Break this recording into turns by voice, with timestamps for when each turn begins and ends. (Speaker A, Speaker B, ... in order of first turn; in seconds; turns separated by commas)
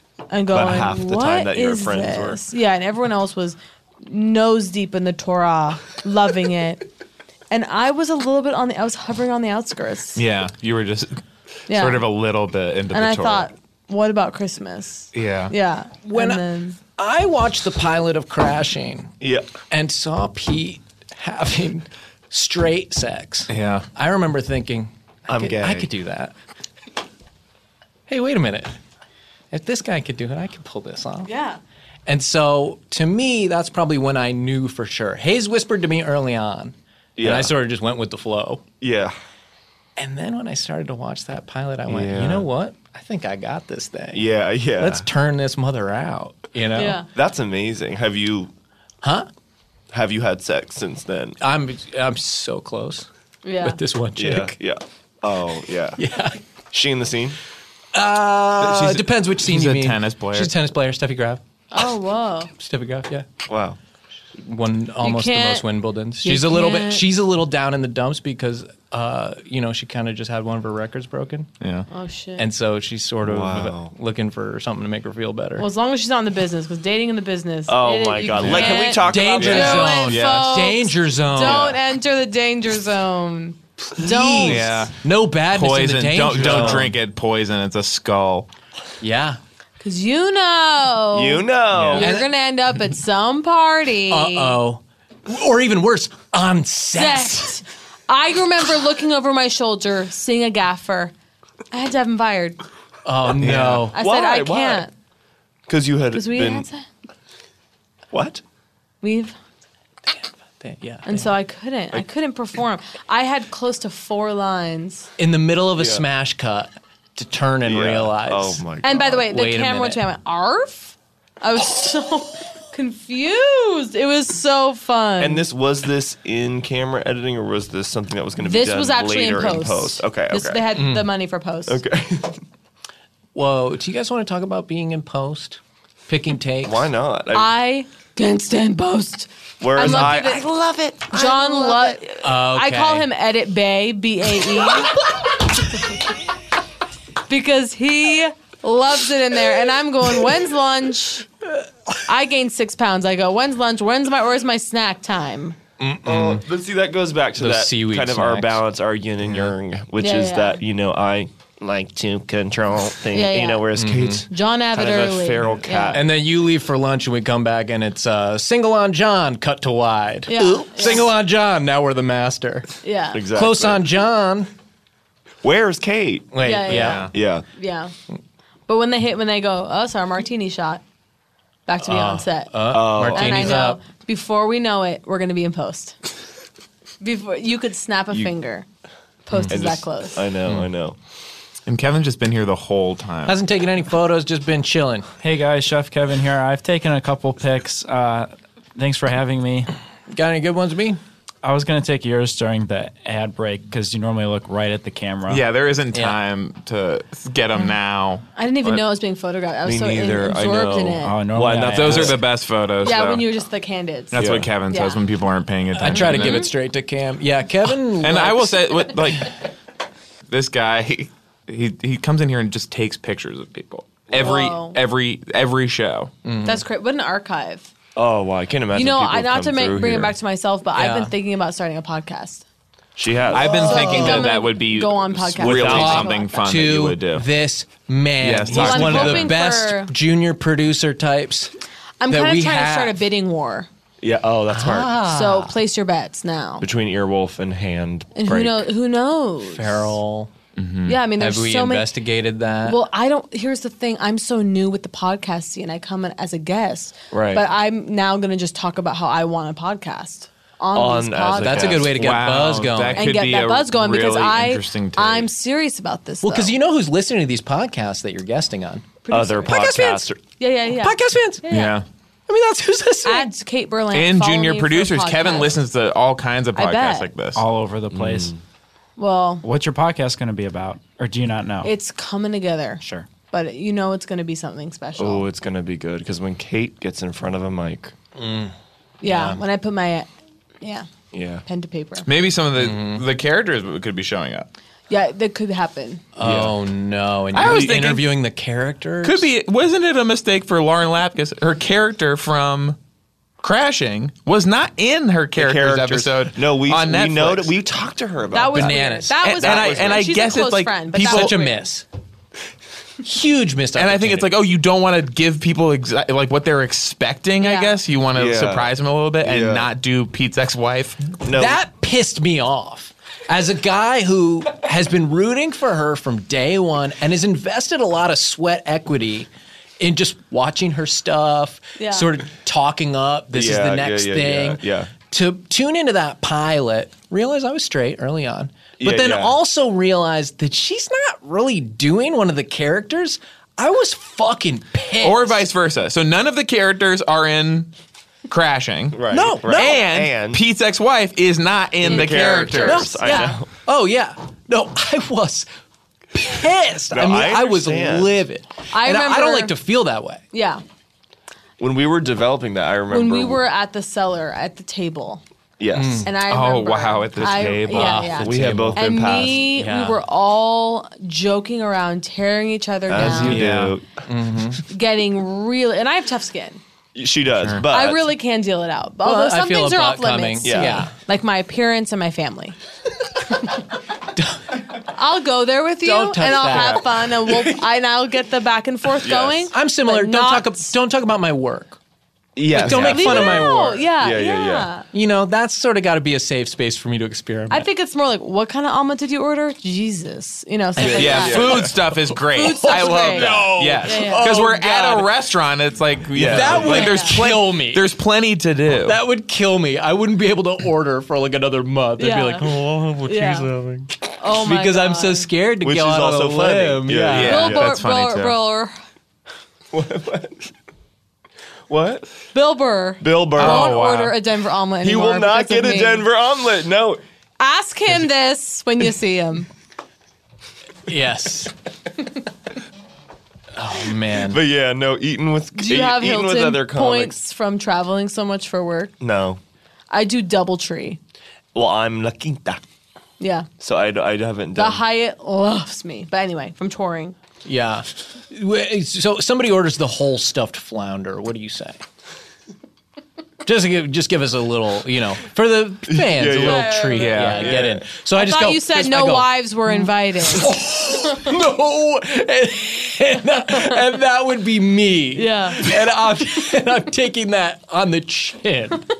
Speaker A: 0.3-6.9, Speaker B: 0.5-2.4, Speaker A: 7.5-10.2, Speaker C: 10.2-13.5, Speaker A: 11.7-12.1, Speaker A: 12.9-16.8, Speaker C: 15.1-15.5, Speaker D: 16.1-16.4, Speaker D: 17.0-19.1, Speaker B: 19.2-19.5, Speaker D: 19.7-26.3, Speaker C: 23.5-23.9, Speaker B: 25.3-25.9, Speaker D: 28.1-28.7, Speaker D: 29.5-31.3, Speaker A: 31.2-31.6, Speaker D: 32.0-38.6, Speaker B: 37.2-37.5, Speaker B: 38.8-39.1, Speaker D: 40.0-47.0, Speaker B: 41.9-42.5, Speaker B: 44.1-45.0, Speaker A: 46.7-47.1, Speaker B: 47.1-48.5, Speaker D: 49.0-49.3, Speaker B: 49.9-51.4, Speaker D: 51.4-53.1, Speaker A: 53.5-53.8, Speaker D: 53.6-54.5, Speaker B: 54.2-56.0, Speaker D: 56.0-56.4, Speaker B: 56.7-57.4, Speaker D: 57.9-61.4, Speaker C: 58.6-60.5, Speaker A: 61.7-62.5, Speaker D: 62.5-63.3, Speaker B: 63.5-63.8, Speaker D: 64.4-71.5, Speaker A: 65.0-65.7, Speaker A: 66.2-67.0, Speaker C: 71.6-71.9, Speaker A: 71.9-72.5, Speaker D: 72.4-75.7, Speaker B: 73.2-73.9, Speaker A: 75.6-84.8, Speaker B: 77.7-80.0, Speaker D: 78.4-81.7, Speaker C: 79.4-80.5, Speaker B: 81.4-81.8, Speaker D: 83.8-87.0, Speaker C: 84.5-85.0, Speaker C: 85.5-88.5, Speaker B: 86.3-86.9, Speaker D: 89.0-89.4, Speaker A: 89.8-94.6, Speaker B: 91.1-92.1, Speaker C: 91.7-92.0, Speaker D: 91.9-92.3, Speaker D: 94.1-97.6, Speaker A: 97.0-101.1, Speaker A: 101.7-102.6, Speaker D: 103.0-104.0, Speaker C: 103.4-103.8, Speaker B: 103.5-104.9, Speaker A: 103.9-104.9, Speaker B: 105.7-106.7, Speaker A: 106.1-106.9, Speaker B: 108.1-108.4, Speaker A: 109.0-109.4, Speaker D: 110.1-111.3, Speaker A: 111.0-115.1, Speaker D: 115.2-118.6, Speaker B: 115.8-116.0, Speaker B: 117.6-119.2, Speaker A: 118.8-125.5, Speaker D: 119.3-120.0, Speaker B: 125.2-130.7, Speaker A: 128.4-131.8, Speaker D: 130.7-131.1, Speaker B: 131.7-132.4, Speaker D: 133.3-136.9, Speaker B: 136.6-137.5, Speaker A: 137.3-140.5, Speaker B: 139.6-142.0, Speaker D: 139.8-140.2, Speaker A: 141.1-145.0, Speaker D: 142.2-143.1, Speaker A: 147.3-151.3, Speaker A: 152.1-155.6, Speaker D: 155.8-156.4, Speaker B: 156.0-166.1, Speaker D: 157.4-158.6, Speaker D: 159.2-159.6, Speaker A: 160.0-160.6, Speaker A: 163.1-163.7, Speaker D: 163.8-164.2, Speaker A: 164.3-166.0, Speaker D: 165.9-172.7, Speaker A: 170.3-171.1, Speaker A: 172.8-173.2, Speaker B: 173.1-173.8, Speaker D: 173.3-174.5, Speaker B: 175.4-177.4, Speaker D: 176.3-177.1, Speaker A: 176.4-177.9, Speaker C: 176.8-177.1, Speaker A: 178.7-180.8, Speaker A: 181.7-186.0, Speaker D: 181.8-183.8, Speaker B: 182.7-183.6, Speaker A: 187.0-188.7, Speaker A: 189.3-190.3, Speaker B: 189.5-191.0, Speaker C: 191.7-193.4, Speaker D: 193.3-195.1, Speaker E: 195.2-199.7, Speaker D: 200.1-201.0, Speaker E: 201.4-205.5, Speaker C: 205.3-208.8, Speaker D: 205.9-206.2, Speaker A: 208.4-211.2, Speaker B: 209.6-212.2, Speaker E: 211.0-212.2, Speaker C: 211.6-213.2, Speaker A: 212.8-214.2, Speaker C: 214.1-216.5, Speaker B: 214.1-214.5, Speaker A: 214.7-215.0, Speaker D: 215.8-219.0, Speaker A: 215.9-216.5, Speaker C: 218.0-219.4, Speaker C: 220.3-226.1, Speaker B: 224.1-224.4, Speaker A: 224.2-224.8, Speaker D: 226.2-226.6, Speaker A: 226.4-227.7, Speaker B: 227.9-230.1, Speaker A: 228.7-232.4, Speaker D: 230.7-231.1, Speaker B: 232.9-234.3, Speaker C: 233.3-237.3, Speaker A: 233.5-236.4, Speaker D: 233.6-234.3, Speaker B: 235.4-236.1, Speaker D: 235.6-241.5, Speaker C: 238.2-239.3, Speaker A: 238.5-239.9, Speaker A: 242.0-243.7, Speaker D: 242.1-243.0, Speaker B: 244.0-245.0, Speaker D: 244.5-245.6, Speaker A: 245.1-246.7, Speaker B: 246.6-248.7, Speaker A: 248.1-249.9, Speaker D: 249.4-250.3, Speaker C: 250.6-251.0, Speaker A: 250.9-251.9, Speaker D: 251.2-252.8, Speaker A: 252.6-261.9, Speaker B: 257.1-257.4, Speaker B: 260.7-262.1, Speaker D: 261.4-263.2, Speaker C: 261.9-265.3, Speaker A: 262.9-266.5, Speaker D: 266.2-268.9, Speaker A: 269.1-271.8, Speaker B: 269.1-270.2, Speaker D: 269.4-270.0, Speaker D: 270.8-271.4, Speaker C: 271.5-271.9, Speaker D: 272.3-273.3, Speaker A: 273.1-275.6, Speaker C: 273.9-277.4, Speaker A: 276.6-277.1, Speaker E: 277.4-278.4, Speaker B: 277.9-278.4, Speaker A: 279.0-279.4, Speaker E: 279.4-281.7, Speaker A: 281.6-285.3, Speaker E: 282.8-283.1, Speaker B: 285.0-287.9, Speaker D: 288.1-289.4, Speaker A: 289.0-290.1, Speaker A: 290.6-290.9, Speaker B: 291.1-291.4, Speaker A: 291.4-292.1, Speaker C: 292.0-294.5, Speaker D: 292.6-293.1, Speaker A: 294.9-296.0, Speaker D: 296.2-299.3, Speaker C: 296.2-296.5, Speaker B: 296.2-296.5, Speaker C: 297.3-298.1, Speaker C: 299.0-302.8, Speaker C: 303.4-307.5, Speaker B: 305.4-308.8, Speaker A: 308.3-311.7, Speaker D: 308.5-309.2, Speaker C: 309.2-311.4, Speaker B: 309.4-310.4, Speaker D: 310.9-311.9, Speaker D: 313.0-314.4, Speaker C: 313.7-321.1, Speaker A: 317.4-317.8, Speaker B: 318.1-319.7, Speaker B: 321.2-321.6, Speaker D: 321.3-345.5, Speaker A: 331.8-332.1, Speaker B: 333.3-334.9, Speaker B: 338.8-339.4, Speaker C: 345.0-347.7, Speaker C: 348.3-353.0, Speaker B: 348.9-350.4, Speaker D: 349.1-349.8, Speaker B: 351.8-353.5, Speaker A: 351.9-352.2, Speaker D: 351.9-355.4, Speaker A: 352.9-353.3, Speaker D: 356.1-360.2, Speaker B: 356.9-358.1, Speaker A: 358.7-359.5, Speaker A: 360.3-360.6, Speaker B: 361.6-363.4, Speaker A: 362.9-365.2, Speaker B: 365.6-366.1, Speaker D: 365.7-366.1, Speaker A: 366.1-373.4, Speaker C: 366.2-368.6, Speaker D: 367.3-370.0, Speaker B: 368.2-369.5, Speaker B: 372.9-373.9, Speaker D: 373.0-374.6, Speaker C: 373.3-373.7, Speaker A: 374.7-376.6, Speaker B: 376.9-378.0, Speaker D: 377.4-377.7, Speaker A: 377.7-382.6, Speaker D: 379.0-380.9, Speaker B: 380.4-380.9, Speaker D: 384.1-384.7, Speaker A: 384.9-390.7, Speaker D: 385.8-387.6, Speaker C: 386.3-386.8, Speaker B: 389.0-389.5, Speaker D: 389.5-391.8, Speaker B: 392.4-394.7, Speaker D: 392.5-393.6, Speaker A: 392.6-394.9, Speaker D: 394.9-397.7, Speaker A: 397.5-401.7, Speaker B: 400.8-401.7, Speaker D: 400.8-405.1, Speaker C: 400.9-409.0, Speaker A: 402.3-404.6, Speaker B: 406.1-406.9, Speaker D: 406.2-407.9, Speaker A: 406.6-407.1, Speaker D: 408.8-417.5, Speaker A: 412.0-412.5, Speaker A: 413.1-413.5, Speaker A: 414.2-415.3, Speaker B: 415.6-417.7, Speaker C: 417.1-418.4, Speaker A: 417.2-418.8, Speaker B: 419.7-420.5, Speaker B: 421.7-422.1, Speaker A: 422.3-426.1, Speaker B: 423.0-423.8, Speaker C: 423.4-424.1, Speaker B: 424.8-427.0, Speaker A: 427.4-429.5, Speaker D: 430.9-431.5, Speaker D: 433.6-434.4, Speaker B: 434.2-437.2, Speaker A: 435.6-438.9, Speaker B: 439.0-439.4, Speaker A: 439.9-441.0, Speaker B: 441.5-442.6, Speaker A: 443.2-443.5, Speaker B: 443.6-444.8, Speaker A: 444.6-447.1, Speaker D: 447.4-451.8, Speaker D: 453.4-468.9, Speaker B: 455.9-457.9, Speaker A: 456.4-457.3, Speaker C: 456.9-457.6, Speaker A: 458.2-460.5, Speaker A: 465.1-465.7